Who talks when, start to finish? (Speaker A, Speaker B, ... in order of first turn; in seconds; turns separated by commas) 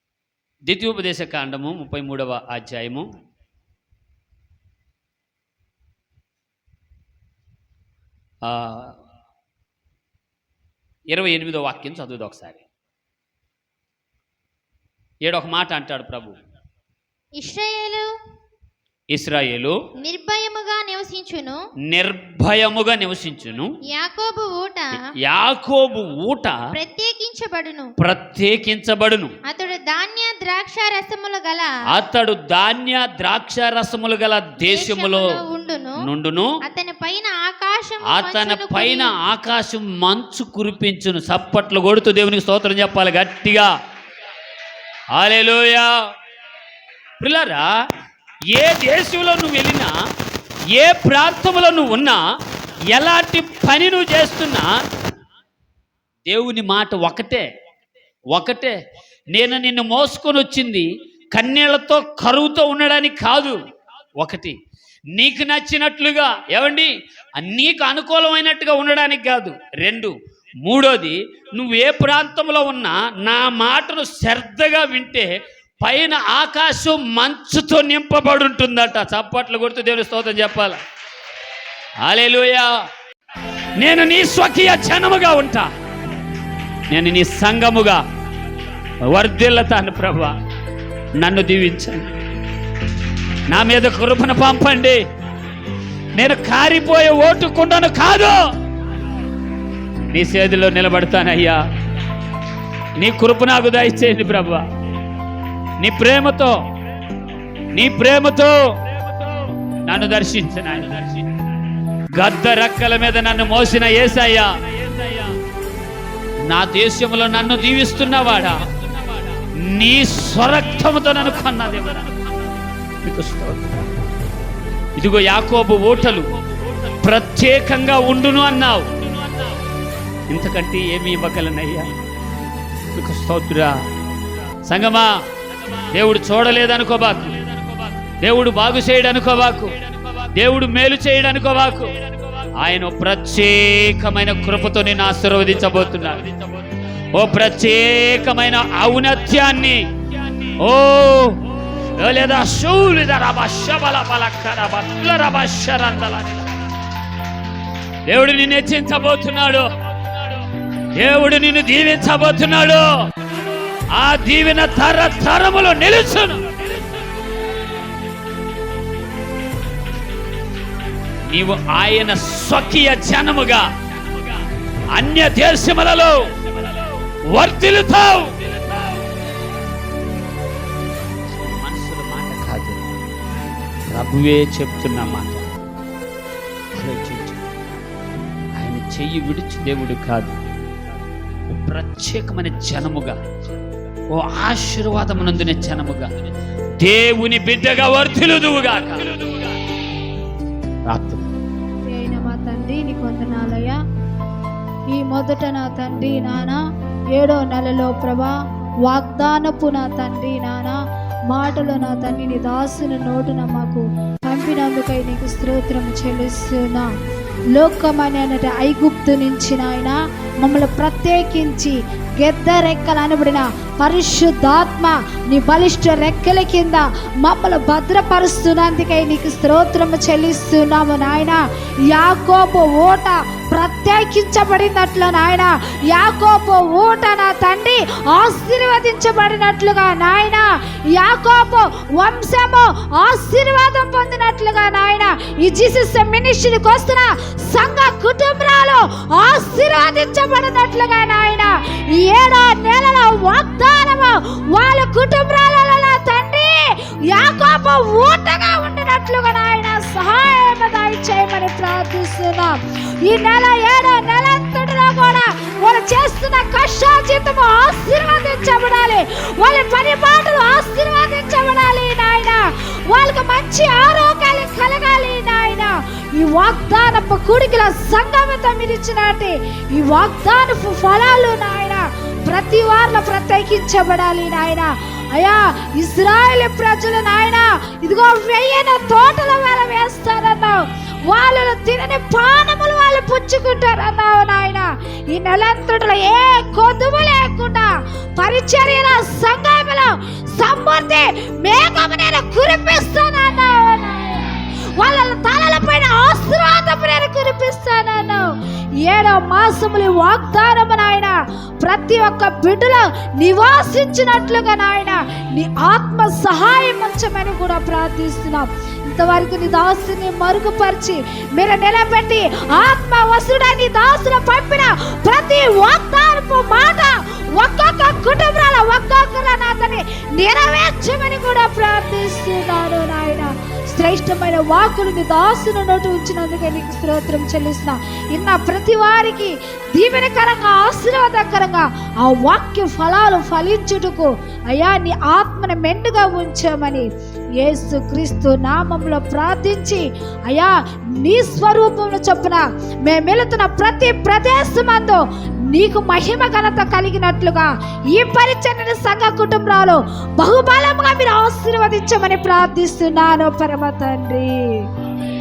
Speaker A: 0.7-3.1, Speaker A: 8.4-8.9, Speaker A: 11.1-12.6, Speaker A: 15.2-16.4, Speaker B: 17.4-18.1, Speaker A: 19.1-19.8, Speaker B: 20.0-21.6, Speaker A: 21.9-23.7, Speaker B: 23.9-25.0, Speaker A: 25.1-26.6, Speaker B: 26.7-27.9, Speaker A: 28.0-29.3, Speaker B: 29.5-31.7, Speaker A: 31.9-35.4, Speaker B: 34.6-36.0, Speaker A: 36.0-36.6, Speaker B: 36.7-39.1, Speaker A: 38.0-43.7, Speaker A: 45.1-45.9, Speaker A: 47.2-47.7, Speaker A: 48.5-49.9, Speaker A: 50.7-52.2, Speaker A: 52.9-54.7, Speaker A: 56.3-57.5, Speaker A: 58.3-58.8, Speaker A: 59.3-63.6, Speaker A: 64.2-64.6, Speaker A: 65.2-80.8, Speaker A: 82.0-82.7, Speaker A: 83.8-85.7, Speaker A: 86.9-88.0, Speaker A: 89.1-90.3, Speaker A: 91.2-92.1, Speaker A: 93.5-95.0, Speaker A: 96.2-98.4, Speaker A: 100.1-101.6, Speaker A: 103.0-104.7, Speaker A: 105.8-106.6, Speaker A: 107.7-108.6, Speaker A: 109.8-111.2, Speaker A: 112.1-115.3, Speaker A: 116.5-118.7, Speaker A: 119.4-122.2, Speaker A: 123.0-123.9, Speaker A: 125.0-126.3, Speaker A: 127.0-129.1, Speaker A: 130.3-131.9, Speaker A: 132.9-133.8, Speaker A: 134.7-135.2, Speaker A: 135.9-137.4, Speaker A: 138.2-139.8, Speaker A: 140.3-141.9, Speaker A: 142.6-146.3, Speaker A: 147.1-149.9, Speaker A: 150.6-156.4, Speaker A: 158.1-159.7, Speaker A: 160.9-162.9, Speaker A: 163.9-166.5, Speaker A: 171.3-173.7, Speaker A: 174.9-176.2, Speaker A: 177.3-178.6, Speaker A: 181.4-182.9, Speaker A: 183.9-185.6, Speaker A: 186.8-187.4, Speaker A: 188.6-190.4, Speaker A: 191.5-193.2, Speaker A: 194.1-196.1, Speaker A: 196.8-199.3, Speaker A: 200.9-201.4, Speaker C: 201.9-203.8, Speaker C: 204.9-206.6, Speaker C: 207.2-208.3, Speaker C: 208.8-210.8, Speaker C: 211.3-216.9, Speaker C: 217.6-231.4, Speaker C: 231.9-308.2, Speaker C: 308.9-346.9, Speaker C: 347.4-364.7